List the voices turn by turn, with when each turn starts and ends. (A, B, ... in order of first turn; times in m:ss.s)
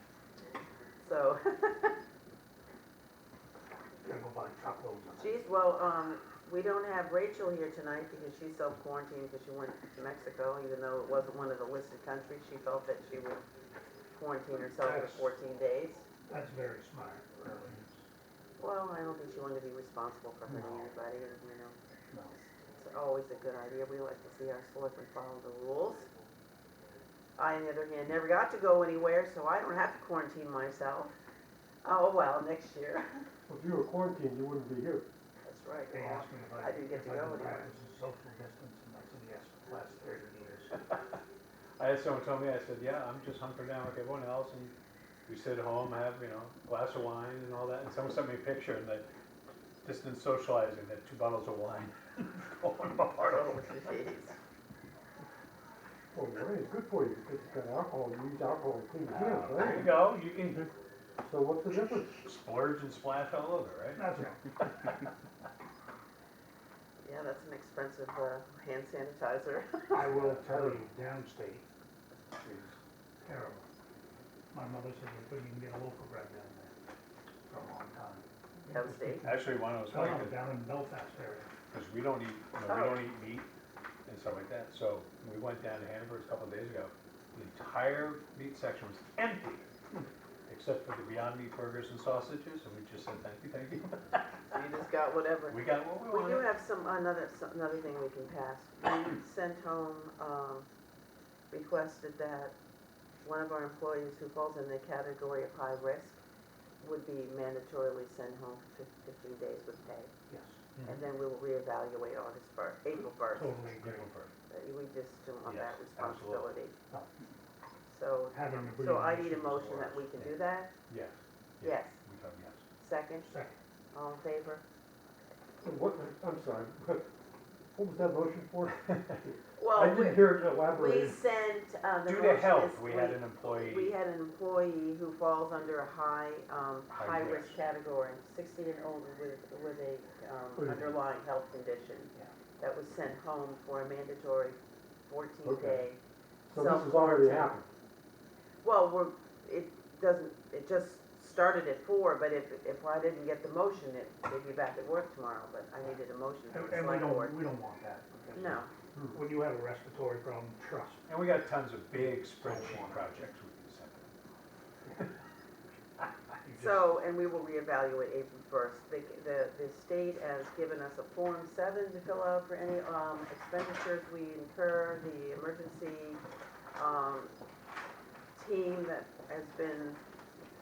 0:01.0-0:02.0 A
0:04.0-0:05.4 B
0:05.2-0:13.4 A
0:14.1-0:16.1 A
0:14.8-0:15.3 B
0:16.3-0:18.0 B
0:18.6-0:21.8 A
0:20.5-0:20.9 B
0:22.3-0:26.1 A
0:27.4-0:31.2 A
0:31.8-0:33.2 A
0:33.5-0:35.1 C
0:35.4-0:37.7 A
0:35.9-0:40.8 B
0:41.8-0:44.7 D
0:45.3-0:49.0 D
0:49.8-0:53.6 D
0:53.2-0:54.4 A
0:56.1-1:00.0 C
0:59.1-1:00.7 D
1:01.2-1:02.2 C
1:02.2-1:04.1 D
1:04.0-1:04.6 B
1:07.0-1:10.1 A
1:09.9-1:11.6 B
1:12.4-1:13.6 B
1:14.5-1:16.8 B
1:17.5-1:18.3 B
1:18.7-1:19.3 A
1:18.9-1:21.5 B
1:19.2-1:20.5 D
1:21.7-1:23.5 D
1:22.6-1:23.1 A
1:24.1-1:29.7 D
1:30.5-1:34.6 D
1:34.5-1:40.7 A
1:35.5-1:36.5 D
1:41.5-1:42.5 A
1:43.2-1:46.2 A
1:46.8-1:50.1 A
1:50.3-1:51.0 B
1:50.8-1:53.6 A
1:53.3-1:54.1 B
1:53.8-1:54.3 D
1:54.5-1:56.8 A
1:55.4-1:56.6 D
1:56.9-1:57.3 B
1:57.9-2:00.7 A
1:58.3-2:00.3 B
2:00.9-2:02.6 D
2:01.6-2:02.0 A
2:02.8-2:03.3 A
2:03.3-2:03.6 B
2:03.9-2:04.6 A
2:05.6-2:07.1 C
2:07.7-2:11.2 C
2:09.6-2:26.0 A
2:12.1-2:14.0 D
2:16.9-2:17.6 D
2:20.6-2:20.9 B
2:25.4-2:25.8 C
2:26.5-2:27.7 C
2:26.6-2:27.6 A
2:28.6-2:37.4 A
2:36.5-2:41.1 B
2:38.4-2:38.7 A
2:41.1-2:44.1 D
2:42.0-2:43.3 B
2:44.8-2:45.1 B
2:46.3-2:46.8 B
2:46.5-2:56.2 A
2:56.8-2:57.4 A
2:58.4-3:00.0 A